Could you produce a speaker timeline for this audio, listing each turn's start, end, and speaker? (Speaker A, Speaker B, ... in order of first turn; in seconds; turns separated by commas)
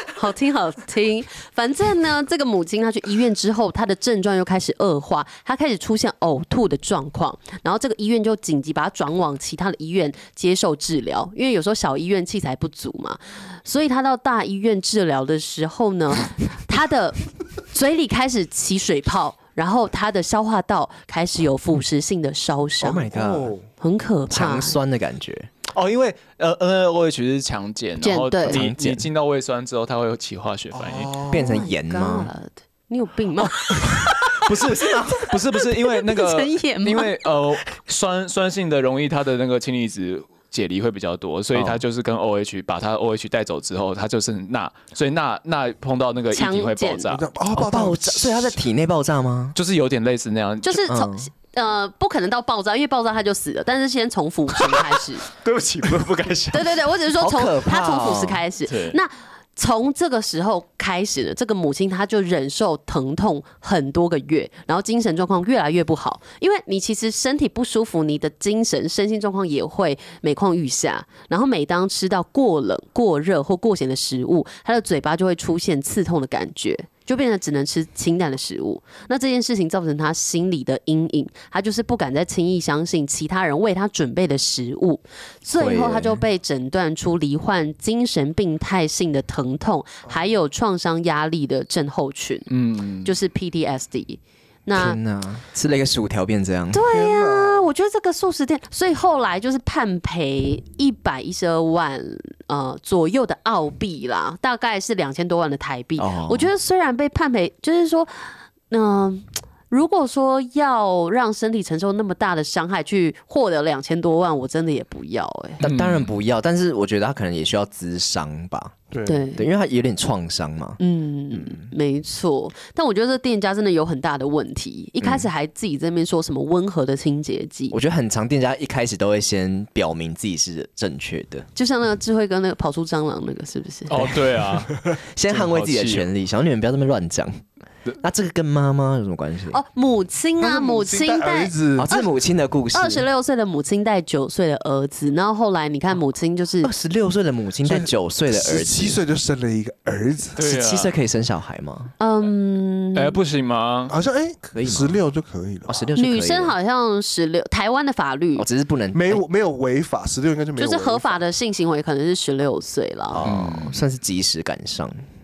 Speaker A: 0.1-23.1, Speaker B: 22.8-23.5, Speaker C: 23.1-23.7, Speaker A: 23.8-24.8, Speaker B: 24.3-25.5, Speaker D: 25.7-31.1, Speaker A: 28.0-28.6, Speaker B: 28.4-29.1, Speaker C: 30.7-31.6, Speaker B: 31.3-32.3, Speaker A: 31.4-34.5, Speaker D: 33.8-47.3, Speaker B: 34.5-35.3, Speaker A: 35.6-37.1, Speaker B: 41.5-41.8, Speaker A: 46.3-47.1, Speaker C: 47.1-48.6, Speaker B: 47.5-49.6, Speaker D: 49.5-50.9, Speaker A: 50.6-55.3, Speaker B: 50.9-51.3, Speaker D: 55.3-56.8, Speaker A: 56.5-92.5, Speaker B: 57.2-58.4, Speaker D: 58.7-59.0, Speaker B: 85.5-86.2, Speaker D: 92.5-93.1, Speaker A: 93.0-95.0, Speaker B: 94.8-96.8, Speaker A: 96.7-115.6, Speaker C: 96.9-97.7, Speaker B: 106.0-106.5, Speaker B: 115.6-118.8, Speaker D: 115.6-116.2, Speaker C: 118.9-119.2, Speaker A: 119.0-119.5, Speaker B: 119.4-120.8, Speaker A: 120.8-127.8, Speaker B: 121.3-121.7, Speaker B: 125.0-125.3, Speaker B: 127.7-131.5, Speaker A: 131.6-134.2, Speaker D: 133.9-136.1, Speaker B: 135.1-137.4, Speaker B: 138.0-139.6, Speaker A: 139.5-142.1, Speaker C: 140.4-141.9, Speaker B: 141.8-143.1, Speaker A: 142.7-146.7, Speaker B: 146.6-149.0, Speaker C: 147.7-150.4, Speaker D: 150.4-150.9, Speaker B: 150.4-151.9, Speaker A: 152.0-153.2, Speaker D: 152.9-153.9, Speaker C: 153.9-155.9, Speaker B: 154.5-155.0, Speaker B: 155.7-156.5, Speaker A: 156.0-158.5, Speaker B: 158.4-159.2, Speaker C: 158.9-161.2, Speaker A: 160.6-163.2, Speaker B: 163.1-165.0, Speaker D: 163.3-163.8